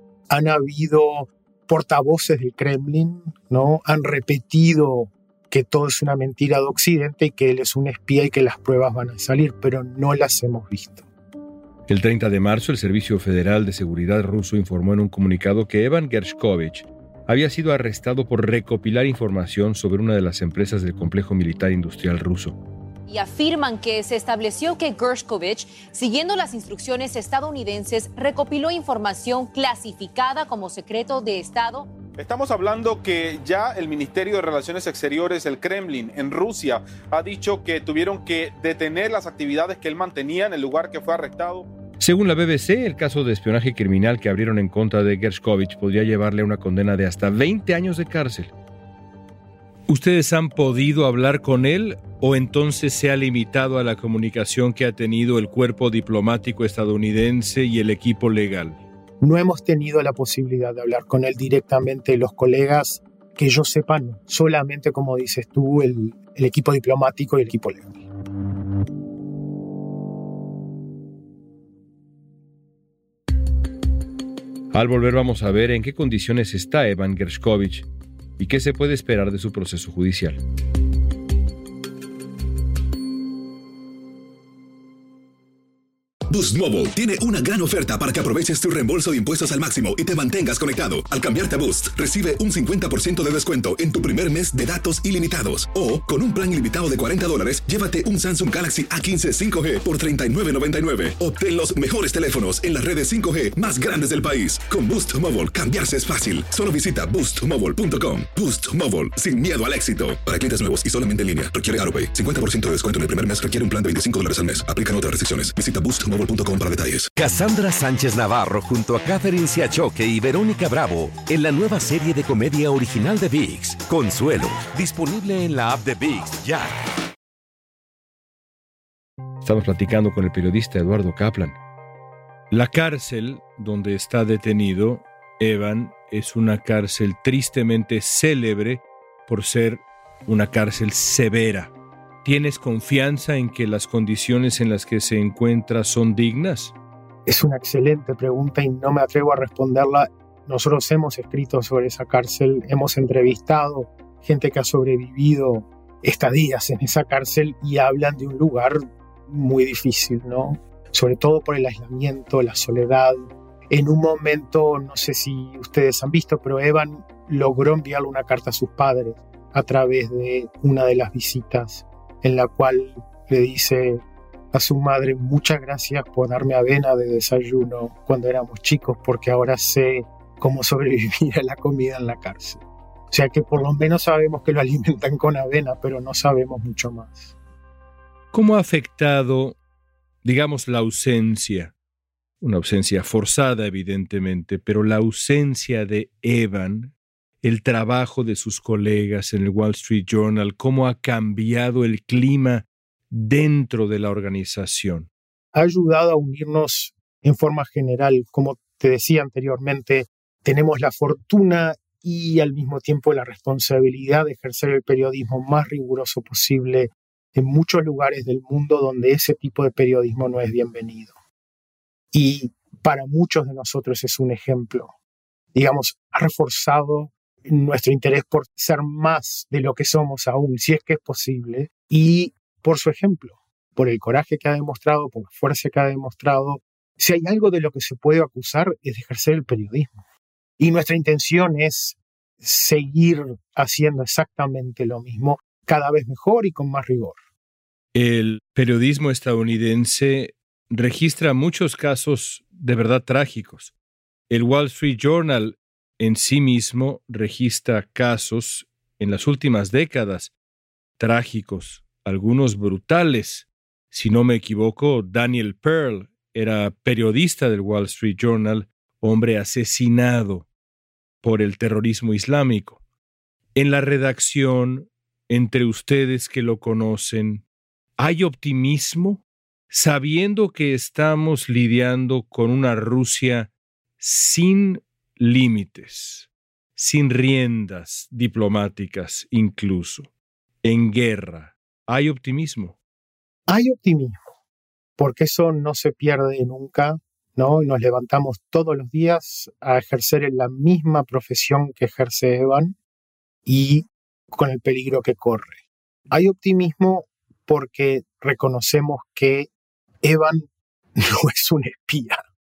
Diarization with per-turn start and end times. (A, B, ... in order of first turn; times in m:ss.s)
0:00.3-0:11.0 A
0:11.9-0:22.6 B
0:23.1-0:31.9 C
0:32.2-0:41.7 D
0:42.0-0:48.5 B
0:49.9-0:58.8 B
0:59.2-1:08.0 A
1:14.7-1:17.9 B
1:18.4-1:20.4 B
1:26.3-1:57.1 E
1:57.2-2:06.7 F
2:09.4-2:11.6 B
2:12.5-2:21.7 B
2:22.2-2:26.7 B
2:27.2-3:07.3 A
3:08.3-3:09.6 B
3:10.2-3:11.7 B
3:12.4-3:25.1 B
3:25.5-3:41.1 A
3:42.1-3:44.9 A
3:45.5-4:00.0 A
4:00.6-4:07.2 A
4:07.9-4:13.7 B
4:14.3-4:20.3 B
4:21.0-4:30.5 B
4:31.2-4:32.8 B
4:33.5-4:37.4 B
4:38.0-4:50.1 B
4:50.6-4:52.8 B
4:53.5-4:54.2 A
4:55.0-5:02.8 A
5:03.4-5:09.5 A
5:10.0-5:12.2 A